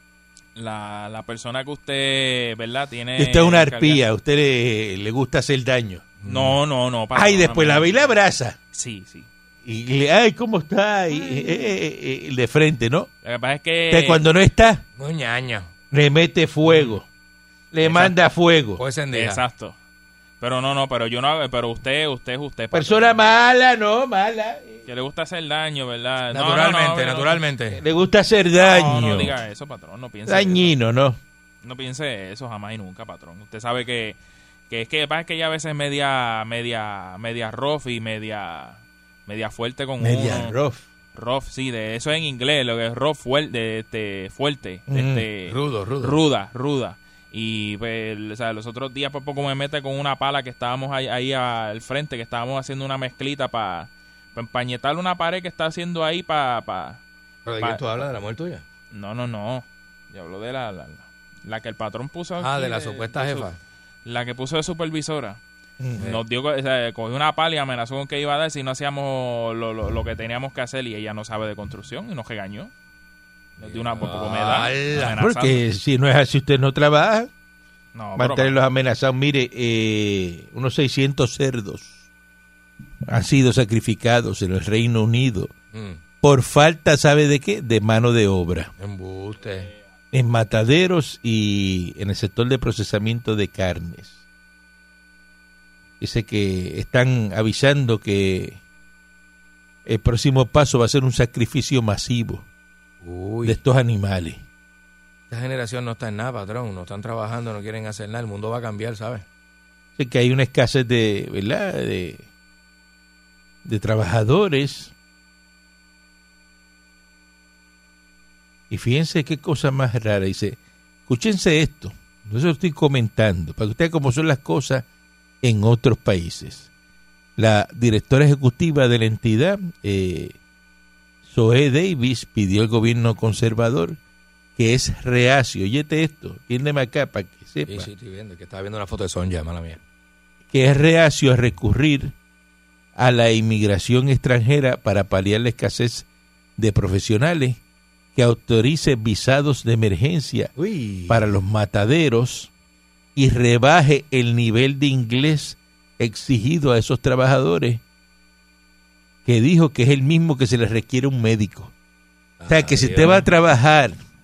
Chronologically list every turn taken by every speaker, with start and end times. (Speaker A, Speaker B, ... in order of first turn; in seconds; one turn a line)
Speaker A: 0.6-4.0
Speaker B: 3.2-6.1
Speaker C: 6.2-6.6
Speaker A: 6.3-8.1
Speaker B: 7.1-8.6
Speaker A: 8.7-9.3
Speaker B: 9.7-13.1
Speaker A: 13.2-14.2
Speaker B: 13.9-14.8
Speaker C: 15.0-15.7
Speaker B: 15.9-17.1
Speaker B: 17.7-18.8
Speaker C: 18.8-19.4
Speaker A: 19.1-19.8
Speaker A: 20.4-23.3
Speaker B: 22.7-24.8
Speaker A: 24.9-27.4
Speaker C: 26.3-27.8
Speaker B: 27.7-29.4
Speaker A: 28.6-30.7
Speaker B: 30.3-31.2
Speaker A: 31.6-34.2
Speaker A: 34.7-40.5
Speaker B: 40.0-40.8
Speaker A: 41.1-57.0
Speaker B: 44.9-45.3
Speaker C: 45.5-46.2
Speaker C: 57.5-58.6
Speaker A: 58.9-63.5
Speaker C: 62.4-63.6
Speaker A: 64.0-65.4
Speaker B: 65.8-66.1
Speaker A: 66.0-72.7
Speaker C: 73.6-75.2
Speaker A: 73.6-75.6
Speaker B: 74.9-77.3
Speaker A: 78.0-78.5
Speaker B: 78.2-82.0
Speaker B: 83.1-85.5
Speaker C: 85.7-86.0
Speaker B: 86.2-88.7
Speaker C: 88.8-89.7
Speaker B: 90.1-94.2
Speaker B: 96.0-98.6
Speaker B: 99.9-102.5
Speaker C: 103.0-103.6
Speaker B: 103.5-104.4
Speaker C: 105.3-109.2
Speaker B: 110.0-112.3
Speaker B: 113.7-114.9
Speaker B: 118.7-124.8
Speaker B: 125.4-126.7
Speaker B: 127.4-130.4
Speaker B: 131.3-134.0
Speaker B: 134.6-137.9
Speaker C: 137.7-139.8
Speaker B: 140.5-142.1
Speaker B: 143.0-146.1
Speaker B: 146.6-147.6
Speaker B: 148.2-150.5
Speaker C: 150.6-151.3
Speaker B: 151.1-152.5
Speaker B: 153.2-157.8
Speaker B: 159.2-161.7
Speaker C: 162.4-163.3
Speaker B: 162.5-164.0